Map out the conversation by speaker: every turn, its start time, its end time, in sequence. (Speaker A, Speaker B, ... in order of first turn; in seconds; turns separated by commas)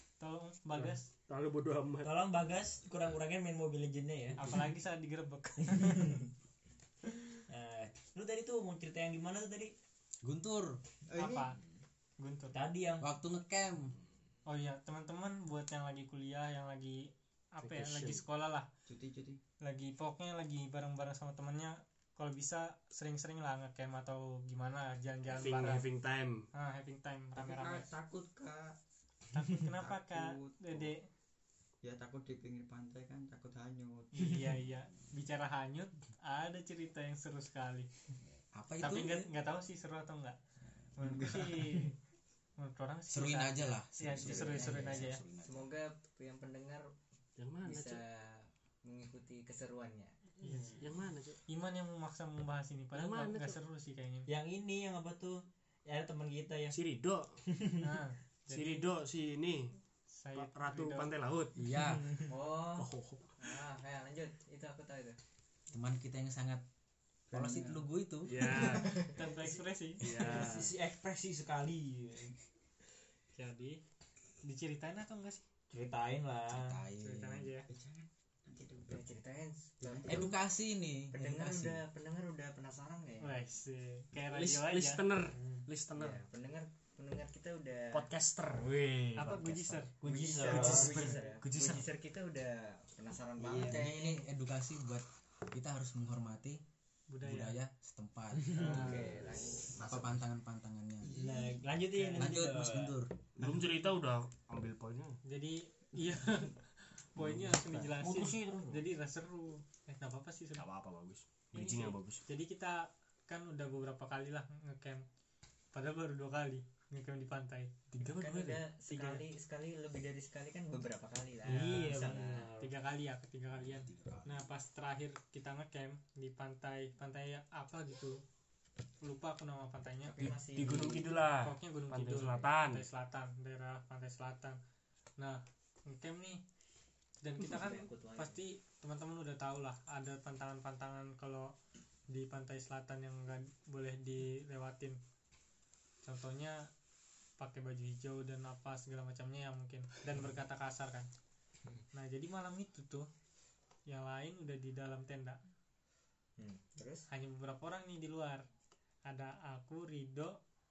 Speaker A: 0.2-1.1, Speaker B: 0.8-2.1, Speaker C: 2.0-4.5, Speaker A: 4.4-6.3, Speaker C: 5.7-6.2, Speaker C: 7.5-9.7, Speaker D: 10.2-10.8, Speaker E: 11.1-11.5, Speaker A: 11.2-11.6, Speaker A: 12.2-12.6, Speaker C: 12.5-13.1, Speaker D: 13.0-13.9, Speaker A: 14.5-18.7, Speaker B: 17.6-18.2, Speaker E: 18.9-19.4, Speaker A: 19.6-25.9, Speaker B: 25.3-26.5, Speaker A: 26.5-27.9, Speaker E: 27.4-28.8, Speaker A: 29.3-31.1, Speaker E: 29.6-30.9, Speaker E: 31.8-34.1, Speaker A: 34.1-37.9, Speaker D: 38.5-39.3, Speaker A: 38.8-40.4, Speaker A: 41.0-42.0, Speaker E: 41.0-41.7, Speaker A: 42.6-45.2, Speaker D: 43.1-45.7, Speaker F: 44.1-46.9, Speaker B: 47.4-48.0, Speaker F: 47.6-50.1, Speaker C: 50.4-50.7, Speaker A: 50.4-50.8, Speaker B: 50.8-51.4, Speaker A: 51.5-54.3, Speaker B: 52.9-53.6, Speaker C: 54.3-56.8, Speaker B: 56.7-57.4, Speaker C: 57.5-58.0, Speaker A: 57.8-58.9, Speaker B: 58.5-59.8, Speaker A: 60.1-61.1, Speaker B: 60.3-61.6, Speaker D: 61.6-62.1, Speaker F: 62.3-65.2, Speaker B: 62.8-63.3, Speaker D: 65.7-66.6, Speaker D: 67.3-68.7, Speaker B: 68.2-69.1, Speaker F: 68.6-69.2, Speaker A: 69.1-70.1, Speaker B: 70.0-70.7, Speaker C: 70.2-72.3, Speaker A: 73.3-73.8, Speaker A: 74.4-75.4, Speaker C: 75.7-76.8, Speaker D: 76.5-77.5, Speaker A: 77.0-77.7, Speaker E: 77.7-78.9, Speaker F: 78.7-80.4, Speaker E: 79.8-80.2, Speaker D: 80.1-81.9, Speaker F: 81.1-83.3, Speaker A: 83.2-85.0, Speaker B: 84.3-86.2, Speaker C: 85.3-85.7, Speaker F: 85.9-88.1, Speaker B: 87.9-91.9, Speaker A: 89.2-89.9, Speaker C: 90.0-91.2, Speaker F: 90.0-94.2, Speaker D: 93.4-96.6, Speaker A: 97.1-97.6, Speaker D: 97.2-99.0, Speaker F: 98.5-100.1, Speaker E: 98.7-99.7, Speaker D: 99.8-101.1, Speaker E: 101.1-101.6, Speaker C: 101.1-103.0, Speaker A: 102.0-102.3, Speaker D: 102.2-103.3, Speaker B: 103.4-105.2, Speaker A: 105.3-106.6, Speaker A: 107.2-110.7, Speaker B: 108.0-108.6, Speaker B: 110.5-112.2, Speaker A: 111.5-115.0, Speaker A: 115.7-117.8, Speaker B: 117.9-118.7, Speaker F: 118.0-122.5, Speaker A: 118.9-119.2, Speaker C: 121.5-122.7, Speaker A: 122.6-128.2, Speaker D: 123.6-124.5, Speaker A: 129.0-130.3, Speaker F: 130.1-131.1, Speaker B: 130.2-132.9, Speaker A: 131.4-134.6, Speaker A: 135.2-136.4, Speaker A: 137.2-141.5, Speaker F: 137.4-138.4, Speaker A: 142.1-145.0, Speaker A: 146.0-146.7, Speaker A: 147.4-151.1, Speaker A: 151.9-153.1, Speaker A: 153.9-155.4, Speaker F: 156.4-157.1, Speaker A: 157.1-158.4, Speaker A: 159.1-160.4